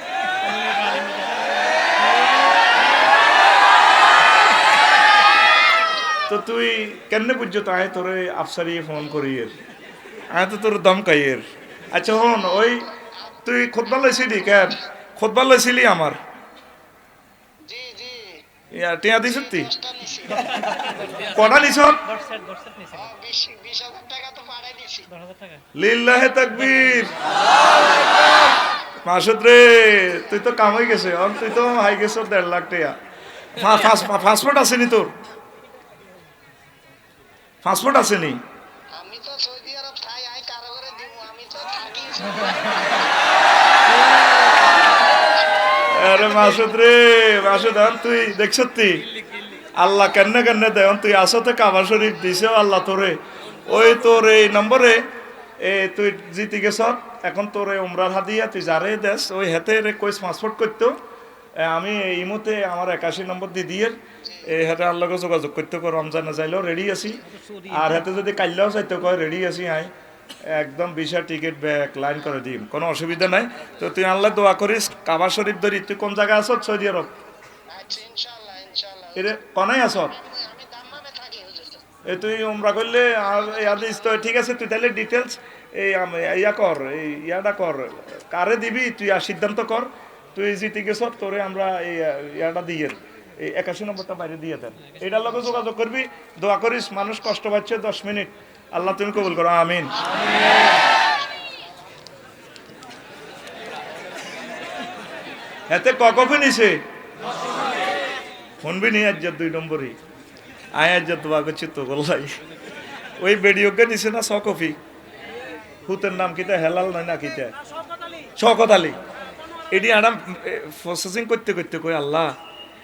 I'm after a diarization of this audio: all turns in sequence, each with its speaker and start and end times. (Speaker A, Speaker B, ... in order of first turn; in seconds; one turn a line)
Speaker A: 0.3-2.5
Speaker B: 6.3-9.6
Speaker B: 10.3-16.2
Speaker C: 17.6-18.4
Speaker B: 18.7-19.7
Speaker C: 19.5-20.6
Speaker A: 20.7-21.2
Speaker B: 21.1-22.1
Speaker A: 22.1-23.1
Speaker C: 22.9-25.1
Speaker A: 25.1-25.6
Speaker B: 25.7-27.2
Speaker B: 29.0-33.0
Speaker B: 33.5-35.1
Speaker B: 37.6-38.4
Speaker C: 38.9-43.2
Speaker B: 45.9-49.1
Speaker B: 49.7-55.1
Speaker B: 55.6-61.0
Speaker B: 61.6-69.9
Speaker A: 67.3-68.0
Speaker B: 70.4-77.1
Speaker C: 77.7-79.3
Speaker B: 79.2-80.2
Speaker C: 80.0-81.8
Speaker B: 82.0-100.0
Speaker C: 100.6-101.8
Speaker B: 105.7-106.8
Speaker B: 108.6-110.0
Speaker B: 110.7-112.4
Speaker B: 113.2-114.8
Speaker B: 115.8-117.5
Speaker B: 118.3-119.0
Speaker B: 119.7-122.3